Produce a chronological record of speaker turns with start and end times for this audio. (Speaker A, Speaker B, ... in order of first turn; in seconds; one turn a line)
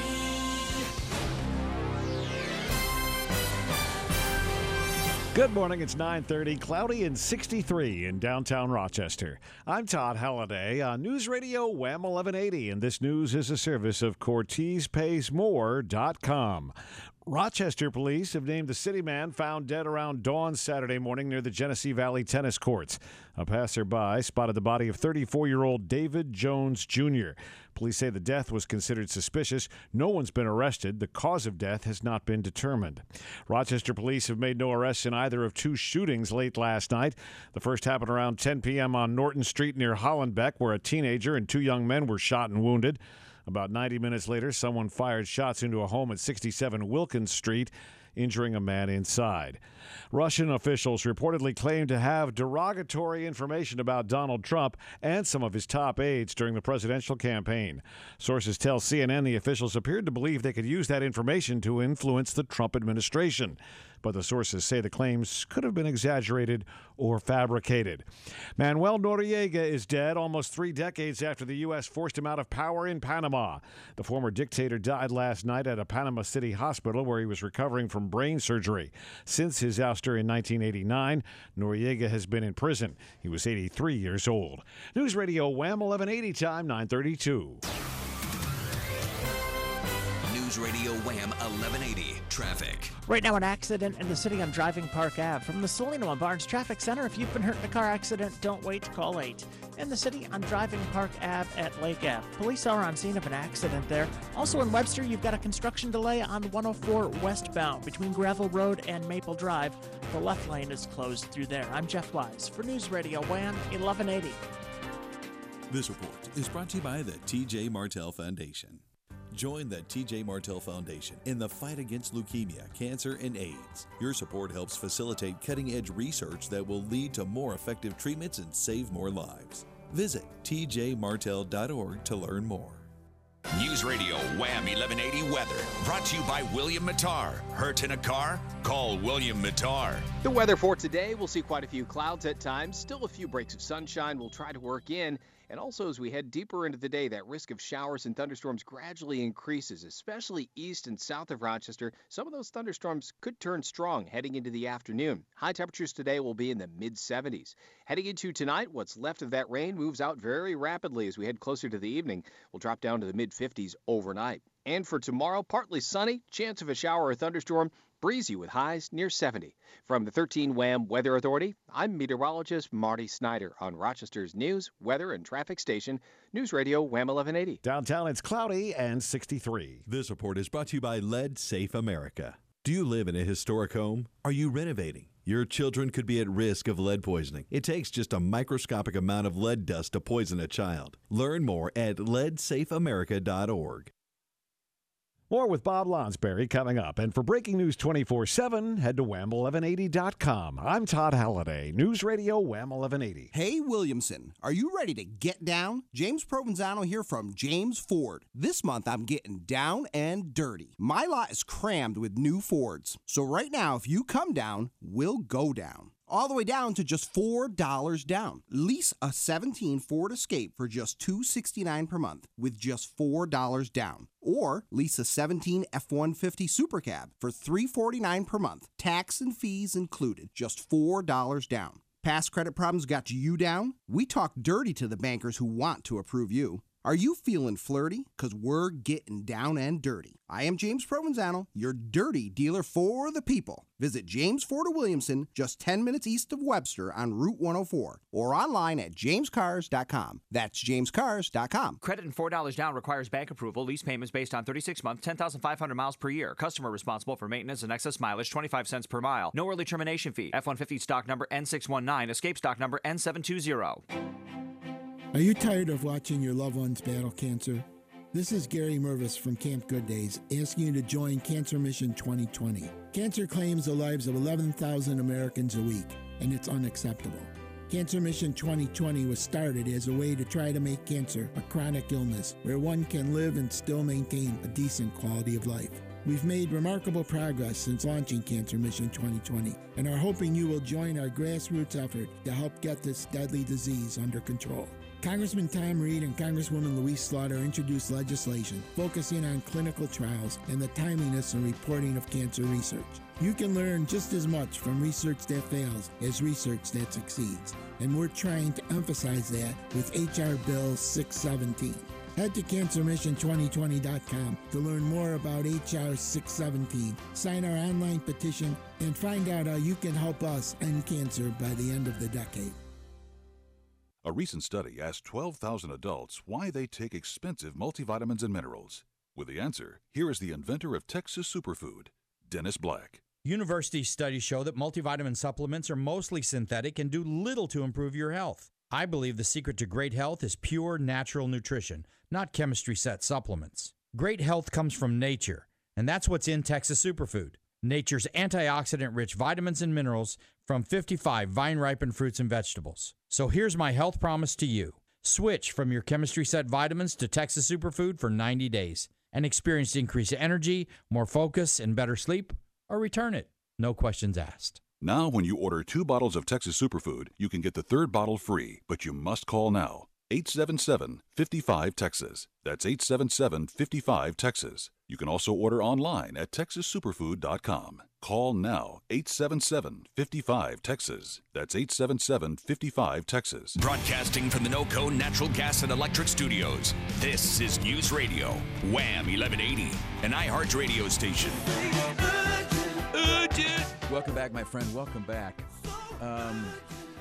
Speaker A: 5.3-16.7
Speaker A: 17.3-49.6
Speaker A: 50.1-68.1
Speaker A: 68.6-87.6
Speaker B: 90.2-93.0
Speaker C: 93.1-114.4
Speaker D: 115.7-132.9
Speaker B: 133.5-140.1
Speaker E: 140.2-177.6
Speaker A: 177.6-179.8
Speaker D: 179.9-193.9
Speaker A: 195.3-203.3
Speaker F: 203.3-251.8
Speaker G: 251.8-263.8
Speaker H: 265.1-322.6
Speaker I: 324.0-333.0
Speaker J: 333.2-364.6
Speaker I: 364.8-383.6
Speaker B: 383.6-391.6
Speaker K: 392.9-396.6